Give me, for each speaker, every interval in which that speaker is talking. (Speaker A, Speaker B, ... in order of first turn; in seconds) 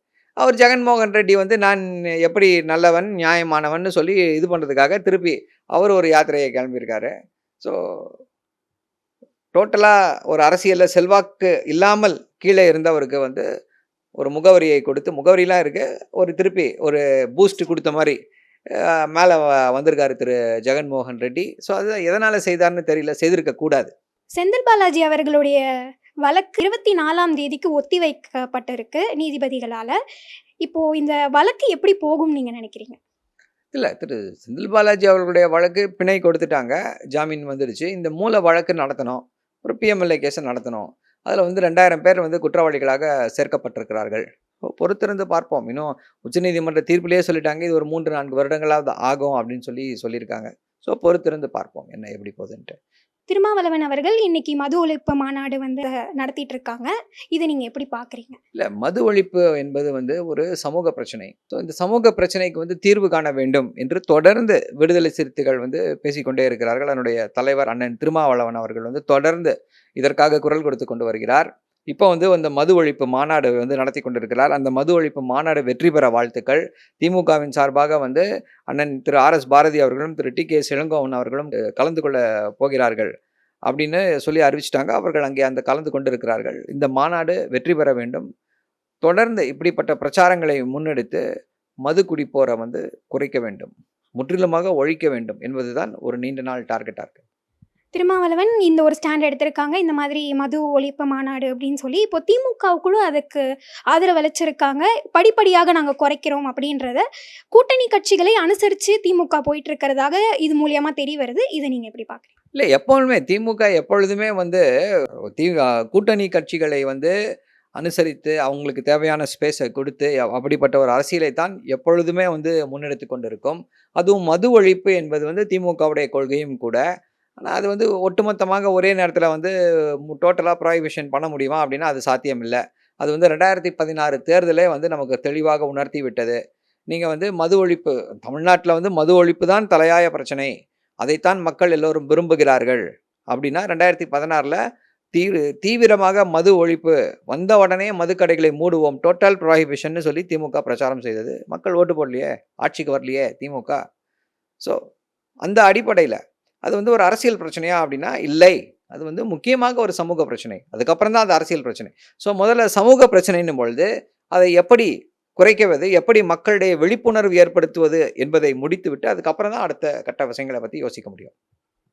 Speaker A: 0.4-8.1, 9.5-13.5, 14.2-18.2, 18.8-23.9, 33.7-52.8, 58.5-83.1, 83.7-88.3, 89.0-91.2, 91.9-97.2, 112.5-114.6, 115.4-117.1, 117.8-126.8, 127.4-129.5, 130.1-136.4, 136.9-144.6, 145.1-153.8, 155.4-171.3
Speaker B: 24.4-25.6, 26.3-29.9, 30.6-33.0, 53.3-58.4, 97.9-107.0, 107.5-112.3